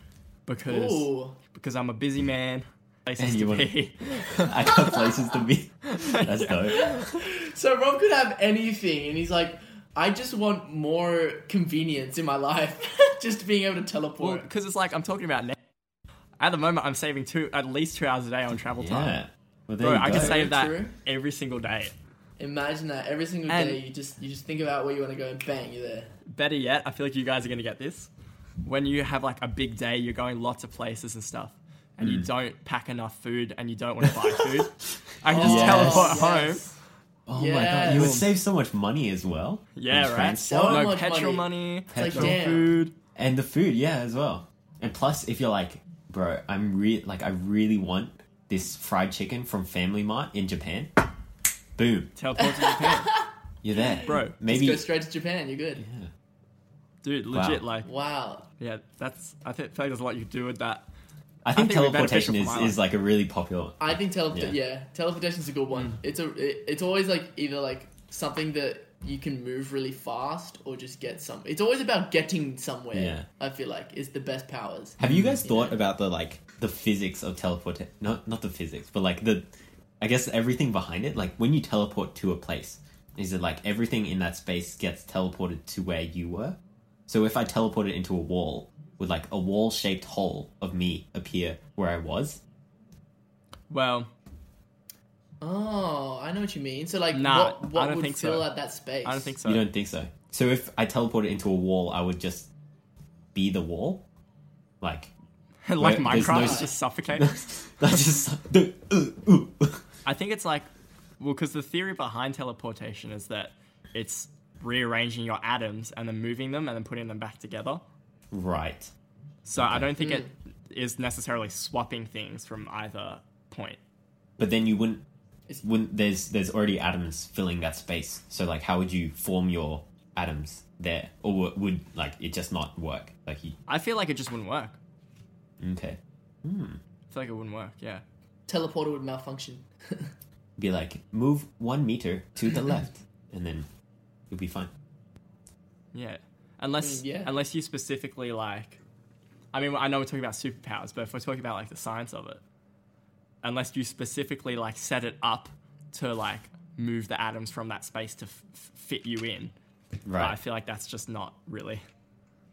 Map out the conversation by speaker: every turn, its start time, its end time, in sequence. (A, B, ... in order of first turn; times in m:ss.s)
0:00.5-0:04.8 A
0:00.7-0:01.4 B
0:03.2-0:07.2 C
0:04.8-0:05.1 B
0:05.9-0:06.9 A
0:06.7-0:14.5 B
0:14.2-0:15.6 A
0:16.4-0:19.2 A
0:18.8-0:20.5 C
0:19.8-0:21.9 A
0:20.0-0:21.0 B
0:22.4-0:26.1 B
0:23.5-0:23.8 A
0:26.3-0:28.1 A
0:28.6-0:36.7 A
0:32.0-0:32.3 C
0:34.0-0:34.6 C
0:35.3-0:36.7 B
0:35.3-0:36.3 C
0:37.3-0:40.9 C
0:37.4-0:38.2 B
0:37.9-0:38.3 A
0:39.8-0:42.9 A
0:40.4-0:42.8 B
0:41.9-0:42.4 C
0:43.2-0:50.9 C
0:51.8-0:52.1 C
0:52.2-0:53.2 A
0:52.4-0:55.8 B
0:53.6-0:54.9 C
0:54.0-0:54.4 A
0:55.8-0:56.1 C
0:57.0-0:57.9 A
0:57.3-0:57.6 C
0:57.8-0:58.5 B
0:58.6-1:00.9 A
1:01.4-1:04.6 C
1:01.5-1:02.8 A
1:03.8-1:15.8 B
1:12.9-1:13.3 C
1:15.0-1:19.5 C
1:15.0-1:15.4 A
1:20.0-1:32.4 C
1:33.7-1:34.1 A
1:35.4-1:39.4 B
1:37.1-1:38.5 A
1:39.0-1:39.6 A
1:39.4-1:42.5 C
1:43.3-1:44.0 C
1:44.8-1:45.1 C
1:45.7-1:47.3 A
1:45.8-1:49.8 C
1:46.2-1:46.7 B
1:50.1-1:50.7 A
1:51.2-1:57.8 A
1:58.3-1:58.9 C
1:59.4-2:03.8 A
1:59.6-1:59.9 C
2:00.0-2:00.3 B
2:04.4-2:05.0 C
2:05.6-2:13.6 C
2:13.7-2:14.8 A
2:15.6-2:16.8 C
2:17.1-2:18.0 A
2:18.5-2:20.1 B
2:20.6-2:23.7 C
2:24.3-2:24.7 C
2:25.9-2:28.8 A
2:26.8-2:27.3 B
2:29.5-2:32.4 A
2:33.4-2:39.5 A
2:40.1-2:40.4 C
2:40.2-2:41.8 A